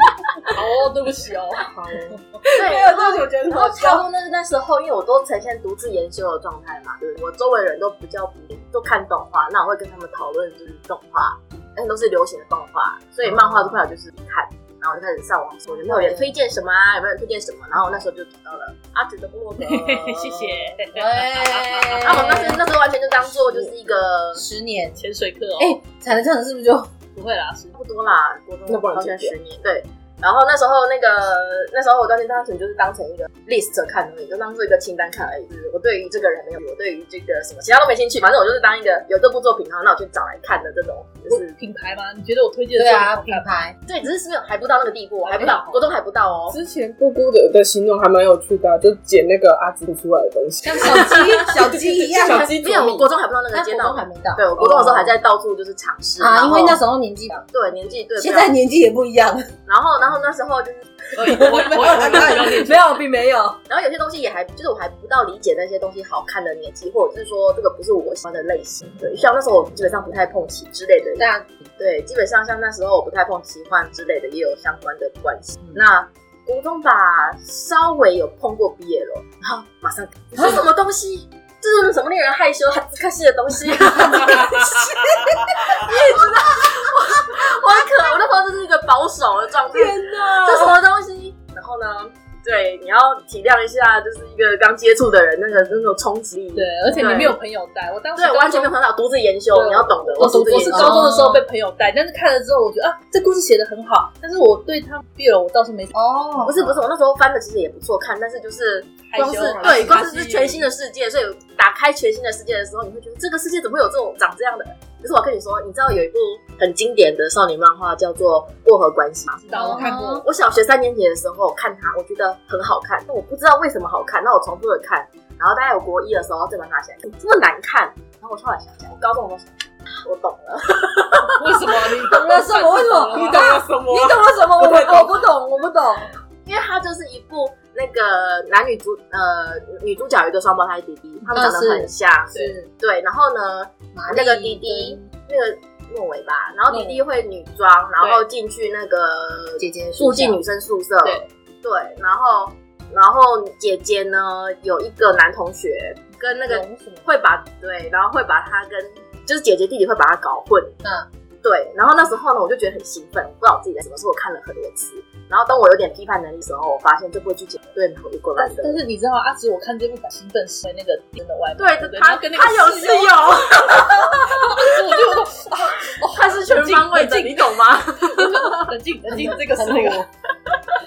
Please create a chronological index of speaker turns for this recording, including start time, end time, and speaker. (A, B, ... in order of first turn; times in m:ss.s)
0:00.4-0:02.2 A
0:01.7-0:02.2 B
0:02.5-0:04.0 C
0:02.5-0:20.8 D
0:13.2-0:13.8 C
0:15.8-0:16.3 C
0:19.6-0:22.2 A
0:20.9-0:22.6 C
0:22.0-0:24.4 D
0:24.3-0:25.0 C
0:25.0-0:25.8 A
0:25.6-0:26.9 C
0:27.1-0:27.8 A
0:27.7-0:41.6 D
0:28.7-0:29.4 B
0:41.3-0:43.5 A
0:42.8-0:43.8 C
0:43.8-0:46.6 D
0:45.3-0:45.8 C
0:46.5-0:53.1 B
0:50.6-0:52.5 C
0:50.8-0:51.5 D
0:52.2-0:56.8 D
0:53.5-0:55.1 C
0:56.2-0:57.4 C
0:57.5-0:58.5 D
0:58.2-0:59.5 C
0:59.7-1:01.4 D
1:01.1-1:02.9 A
1:01.2-1:03.6 C
1:03.7-1:11.3 D
1:11.2-1:11.6 C
1:11.8-1:37.4 D
1:23.9-1:28.1 C
1:29.7-1:30.8 C
1:36.5-1:38.7 A
1:38.2-1:41.0 D
1:39.5-1:45.9 A
1:40.2-1:41.4 C
1:45.9-1:46.8 C
1:46.4-2:09.5 D
1:49.1-1:50.7 A
1:49.2-1:50.0 C
1:59.4-2:00.2 A
1:59.5-2:00.2 C
2:10.0-2:11.7 D
2:11.3-2:13.5 A
2:12.0-2:16.1 C
2:13.1-2:15.3 B
2:16.4-2:40.8 D
2:21.3-2:22.7 C
2:23.9-2:25.0 C
2:26.7-2:27.0 C
2:29.6-2:30.4 C
2:36.5-2:37.1 C
2:40.8-2:41.1 C
2:41.4-2:48.8 D
2:48.4-3:00.0 A
2:51.6-2:54.7 D
2:56.0-2:58.7 D
2:59.1-3:00.1 C